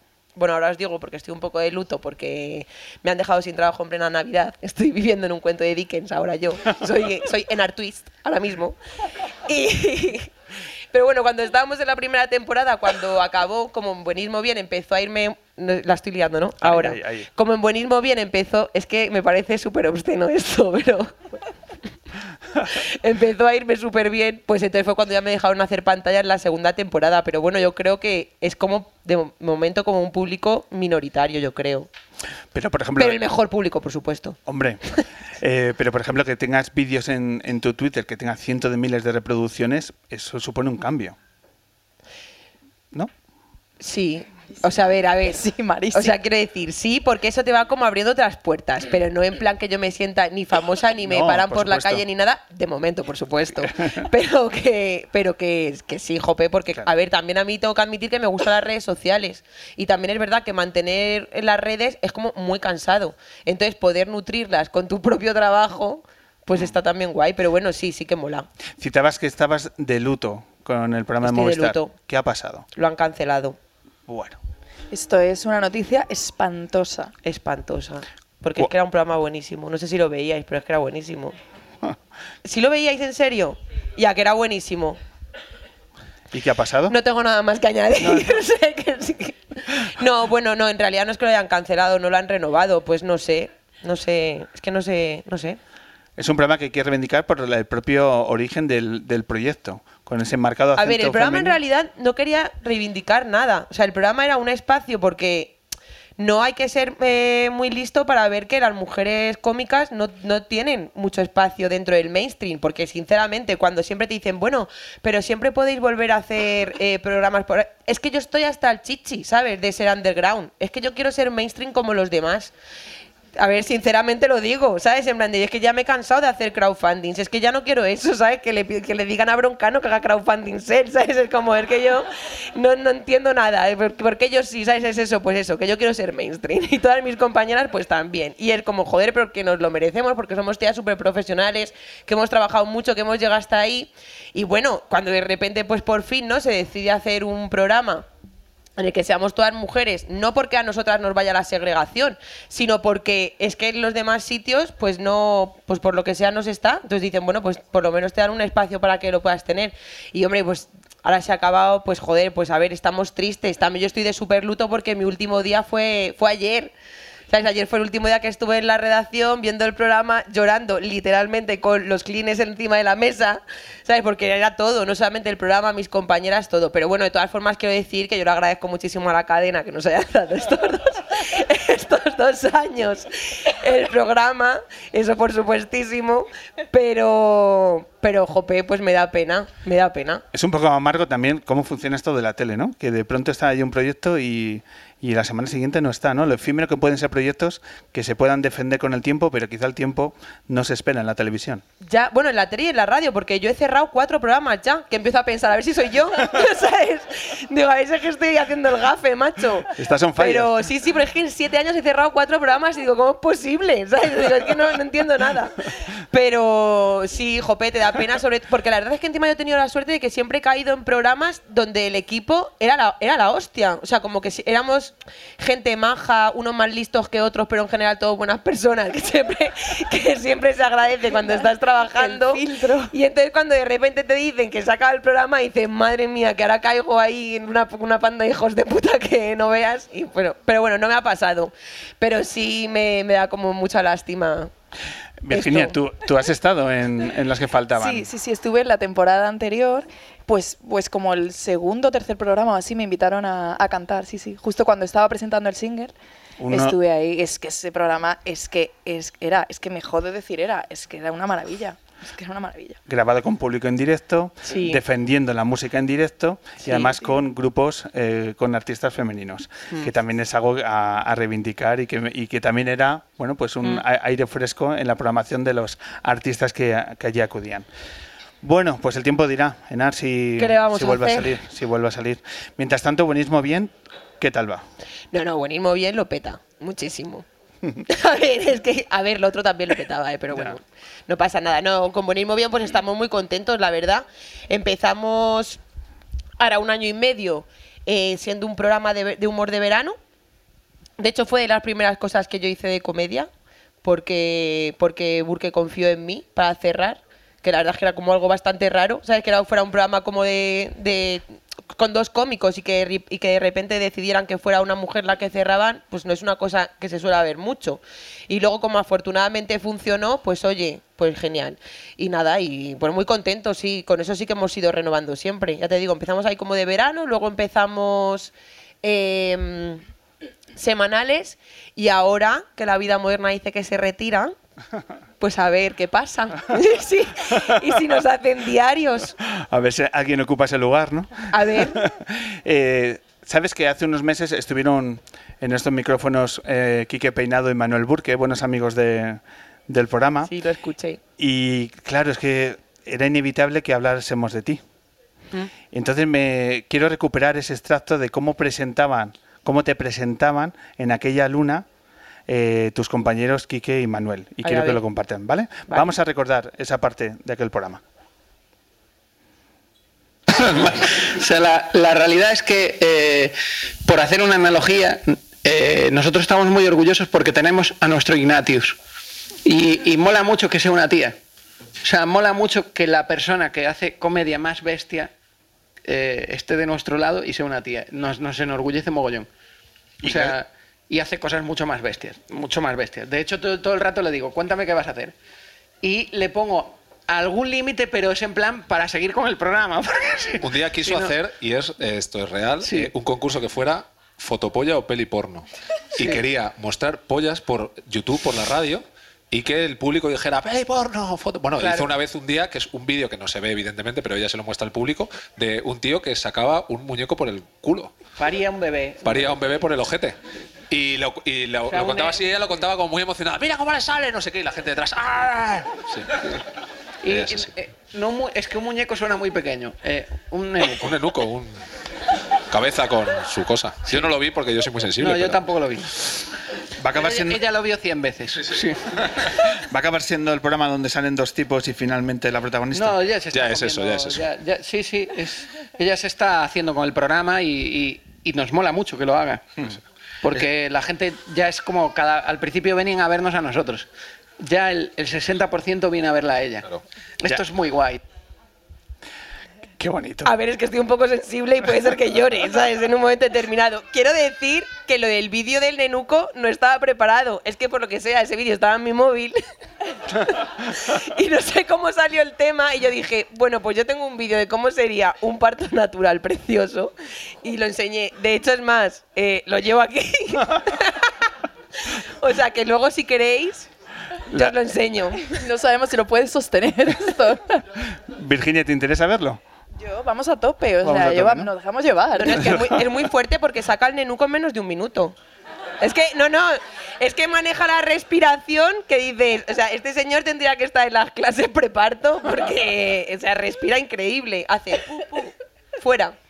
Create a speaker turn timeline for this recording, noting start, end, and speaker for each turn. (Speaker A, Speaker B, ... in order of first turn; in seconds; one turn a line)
Speaker A: 0.3-8.8
Speaker A: 9.3-10.3
Speaker A: 10.9-21.4
Speaker B: 16.6-17.3
Speaker A: 22.7-31.9
Speaker B: 32.5-33.2
Speaker A: 33.0-34.4
Speaker B: 34.5-34.8
Speaker B: 35.4-41.1
Speaker A: 43.8-68.5
Speaker C: 45.2-46.1
Speaker B: 51.0-52.0
Speaker B: 68.8-72.7
Speaker A: 71.2-71.9
Speaker A: 72.8-73.6
Speaker B: 74.1-74.4
Speaker C: 74.9-77.1
Speaker A: 77.2-81.3
Speaker A: 82.4-85.0
Speaker B: 86.3-87.0
Speaker A: 86.9-95.6
Speaker B: 88.0-88.3
Speaker B: 96.2-101.6
Speaker A: 100.8-105.5
Speaker A: 106.2-122.5
Speaker A: 123.4-148.1
Speaker A: 148.8-166.7
Speaker A: 167.3-190.2
Speaker B: 190.3-201.6
Speaker A: 201.8-244.5
Speaker B: 209.7-210.5
Speaker C: 232.0-232.9
Speaker B: 245.2-248.1
Speaker A: 245.3-245.8
Speaker C: 247.7-255.9
Speaker B: 256.4-256.8
Speaker C: 256.5-262.8
Speaker B: 262.9-277.7
Speaker A: 264.4-264.8
Speaker A: 266.6-266.9
Speaker B: 278.4-284.6
Speaker A: 280.4-281.3
Speaker A: 285.1-287.2
Speaker A: 287.9-295.6
Speaker A: 296.4-299.9
Speaker A: 301.0-303.3
Speaker A: 303.8-328.3
Speaker A: 328.8-329.8
Speaker A: 330.5-334.3
Speaker A: 335.2-339.1
Speaker B: 339.3-350.3
Speaker A: 341.3-341.8
Speaker A: 350.3-351.0
Speaker B: 351.2-354.6
Speaker B: 355.7-361.6
Speaker B: 362.3-367.8
Speaker A: 364.4-364.8
Speaker D: 370.3-378.8
Speaker D: 379.4-381.1
Speaker D: 381.8-385.1
Speaker D: 385.8-389.3
Speaker B: 390.0-390.4
Speaker D: 390.0-395.1
Speaker D: 395.8-401.1
Speaker E: 400.4-417.9
Speaker D: 402.6-402.9
Speaker D: 406.0-406.2
Speaker D: 411.6-411.9
Speaker D: 418.2-419.5
Speaker E: 419.0-420.1
Speaker E: 420.7-426.2
Speaker D: 421.7-422.2
Speaker D: 427.0-431.0
Speaker E: 427.1-427.5
Speaker E: 430.8-431.6
Speaker E: 432.5-435.4
Speaker D: 435.0-436.1
Speaker B: 436.8-437.4
Speaker D: 436.9-439.0
Speaker B: 439.6-443.0
Speaker D: 442.7-453.9
Speaker E: 443.3-444.2
Speaker D: 454.4-458.0
Speaker B: 459.8-460.3
Speaker A: 460.2-469.4
Speaker A: 470.1-476.9
Speaker A: 477.4-481.3
Speaker A: 481.8-483.7
Speaker A: 484.3-485.3
Speaker C: 485.2-487.6
Speaker B: 487.9-489.4
Speaker C: 489.8-492.8
Speaker B: 490.8-491.5
Speaker A: 492.2-495.1
Speaker A: 495.8-506.1